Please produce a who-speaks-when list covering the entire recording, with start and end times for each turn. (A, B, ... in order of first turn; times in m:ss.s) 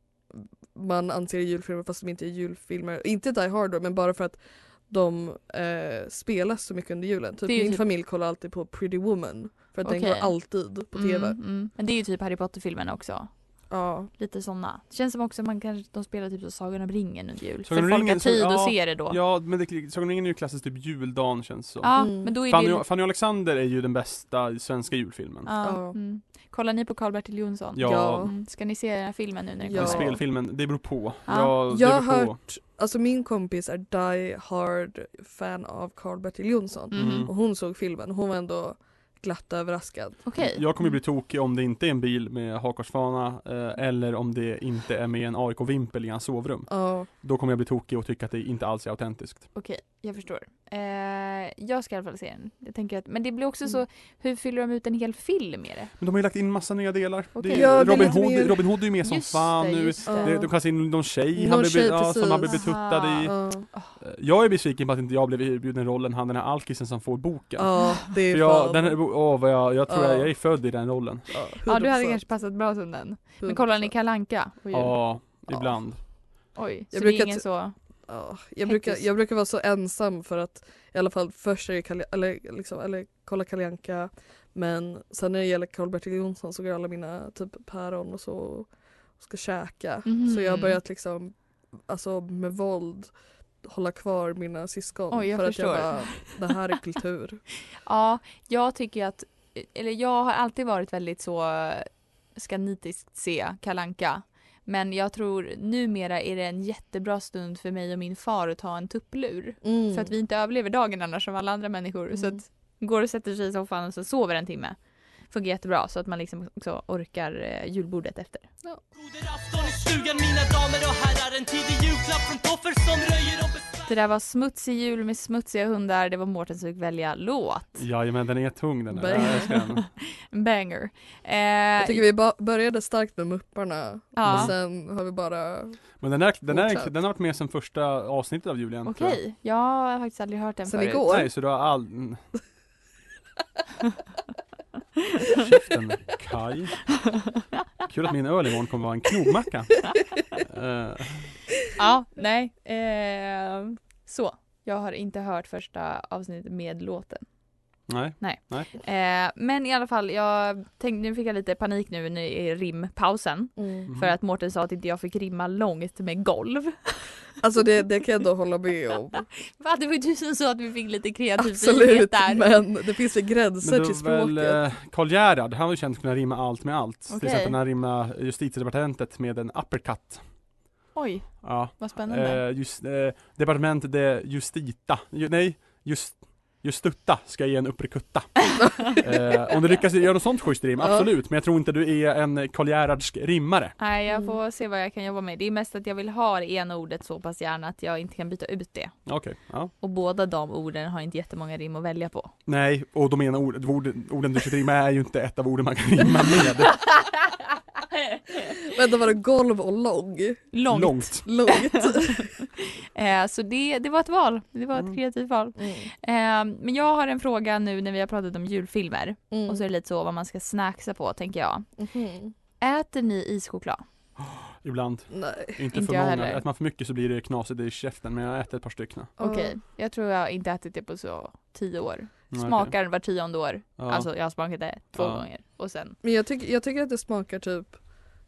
0:00.7-0:11.4 A
0:07.4-0:07.8 B
0:09.8-0:13.3 B
0:13.7-0:14.1 A
0:14.1-0:19.2 B
0:17.6-0:25.5 C
0:21.8-0:22.8 B
0:21.9-0:22.3 A
0:25.4-0:30.2 B
0:25.6-0:26.0 A
0:27.7-0:28.3 C
0:27.8-0:28.4 A
0:29.6-0:30.2 A
0:29.7-0:32.4 C
0:31.3-0:31.5 B
0:31.7-0:40.2 A
0:36.9-0:37.3 B
0:36.9-0:37.3 C
0:40.2-0:41.0 B
0:40.4-0:49.5 C
0:46.7-0:47.1 A
0:49.5-0:55.9 B
0:56.0-1:11.4 C
0:57.3-0:58.5 B
0:57.5-0:58.6 A
0:59.0-1:00.4 B
1:00.0-1:02.6 A
1:02.4-1:04.0 B
1:03.2-1:03.7 A
1:07.6-1:12.2 A
1:11.7-1:15.4 B
1:13.4-1:14.9 A
1:14.7-1:16.0 C
1:16.5-1:17.7 B
1:16.9-1:37.4 A
1:18.6-1:19.1 B
1:30.0-1:30.8 B
1:35.1-1:36.5 B
1:37.8-1:54.8 B
1:49.6-1:50.1 A
1:52.1-1:52.4 A
1:55.3-1:58.5 B
1:58.9-2:03.9 D
2:03.9-2:07.8 B
2:07.8-2:09.9 C
2:08.9-2:09.6 A
2:09.0-2:12.0 B
2:11.8-2:15.9 A
2:14.1-2:14.5 B
2:14.2-2:14.5 C
2:16.0-2:19.2 C
2:16.5-2:16.9 A
2:18.8-2:21.0 B
2:20.6-2:21.3 A
2:21.1-2:22.2 C
2:25.3-2:26.8 C
2:27.8-2:31.4 C
2:31.8-2:37.2 B
2:37.9-2:38.7 C
2:38.2-2:47.1 B
2:43.6-2:43.9 A
2:43.9-2:44.1 C
2:47.4-2:49.3 A
2:49.6-2:52.4 B
2:51.4-2:54.6 A
2:53.6-3:00.3 C
2:57.1-2:57.6 B
3:00.9-3:02.4 B
3:01.4-3:13.8 C
3:13.8-3:19.0 B
3:14.1-3:14.4 A
3:19.0-3:19.7 C
3:19.8-3:22.3 B
3:22.4-3:26.9 C
3:28.6-3:30.5 A
3:30.5-3:41.7 B
3:30.7-3:31.2 C
3:31.2-3:32.3 A
3:35.6-3:35.9 A
3:39.3-3:39.6 A
3:41.8-3:42.3 A
3:42.6-3:43.8 B
3:44.2-3:49.1 C
3:45.1-3:45.6 A
3:45.7-3:46.4 B
3:49.2-3:49.6 A
3:49.2-3:56.0 B
3:52.3-3:52.8 C
3:53.8-3:54.1 C
3:54.9-3:55.2 C
3:56.0-3:57.8 A